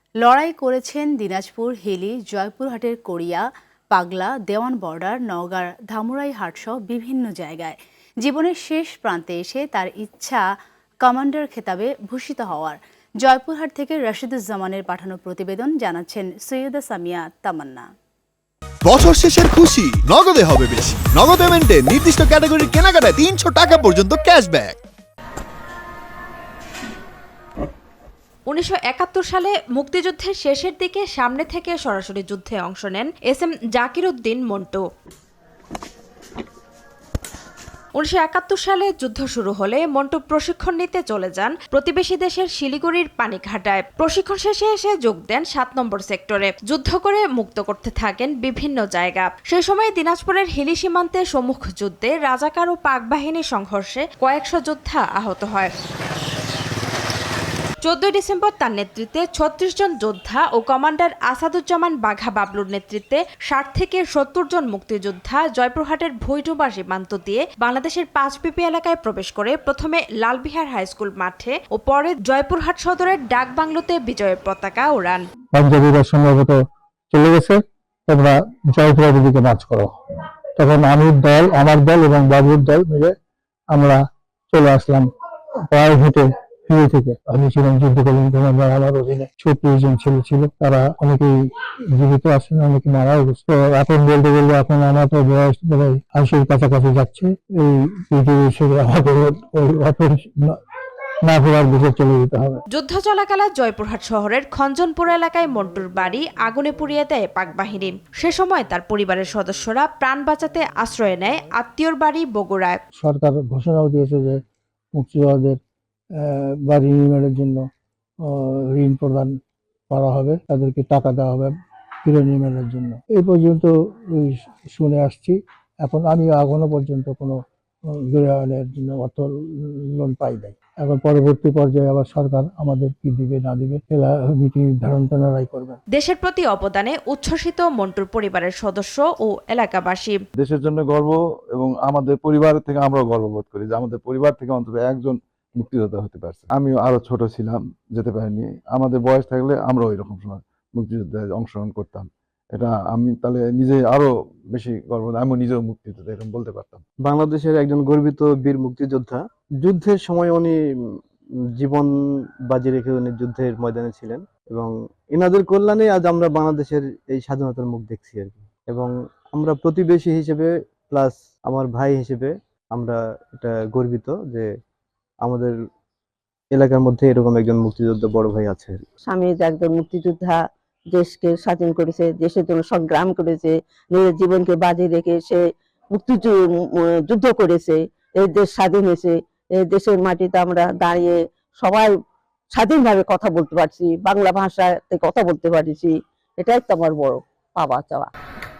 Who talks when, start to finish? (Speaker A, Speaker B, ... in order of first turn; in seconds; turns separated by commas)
Speaker A: 0.2-10.4, Speaker A: 11.0-17.9, Speaker B: 18.8-24.8, Speaker C: 28.5-34.8, Speaker C: 38.0-55.7, Speaker C: 57.8-75.2, Speaker D: 75.5-79.9, Speaker D: 80.6-83.2, Speaker D: 83.7-85.1, Speaker D: 85.7-91.4, Speaker D: 91.9-100.6, Speaker D: 101.2-102.6, Speaker C: 102.7-112.8, Speaker D: 113.0-114.4, Speaker D: 115.0-115.6, Speaker D: 116.2-117.6, Speaker D: 118.3-119.3, Speaker D: 119.9-121.5, Speaker D: 122.0-127.3, Speaker D: 128.0-129.3, Speaker D: 129.9-135.8, Speaker C: 135.9-140.2, Speaker E: 140.4-156.8, Speaker F: 157.1-160.6, Speaker F: 161.6-161.9, Speaker F: 162.5-174.5, Speaker F: 175.2-175.5, Speaker F: 176.5-178.8, Speaker G: 179.0-191.9, Speaker G: 192.5-198.1